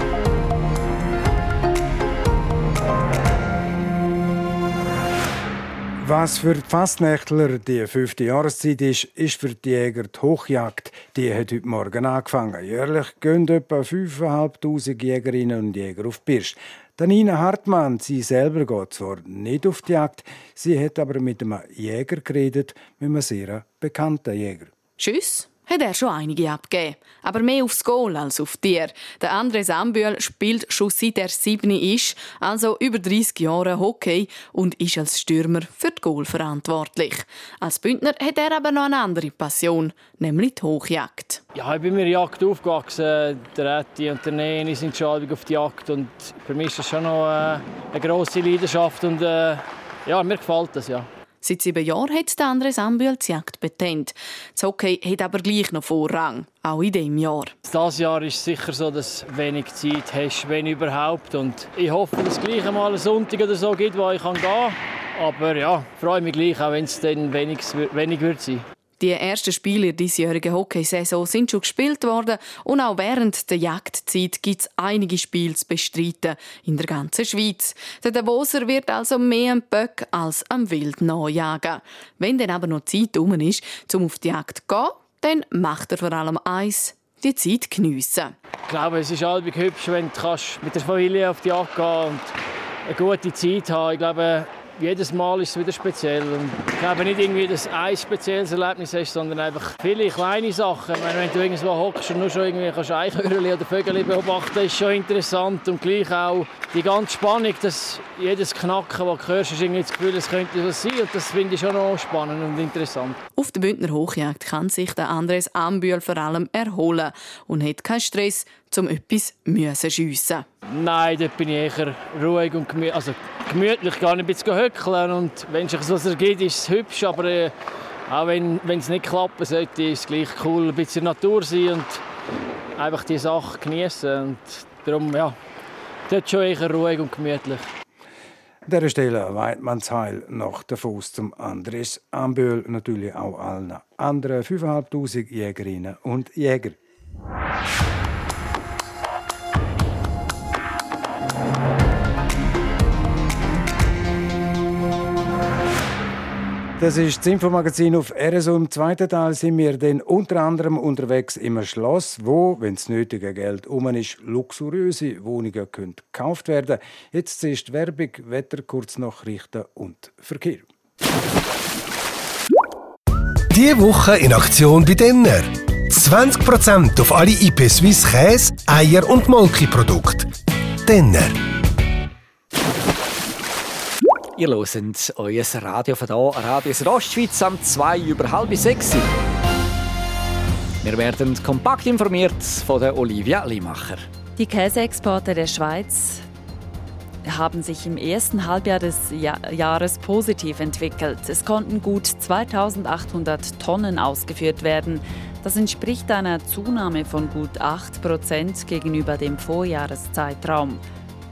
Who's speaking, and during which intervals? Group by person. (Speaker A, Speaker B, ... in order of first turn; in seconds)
Speaker A: 6.0-24.7, 138.7-146.8, 156.8-170.7
Speaker B: 25.0-41.4, 51.4-57.5, 69.0-88.3, 113.3-120.5
Speaker C: 41.5-51.1, 57.6-68.7, 88.7-92.3, 92.8-113.2, 120.7-127.5, 128.1-132.0, 132.8-135.3, 136.1-137.7
Speaker D: 173.5-180.3, 180.8-181.4
Speaker E: 184.4-189.1, 190.8-194.1
Speaker F: 194.4-196.2, 197.2-210.8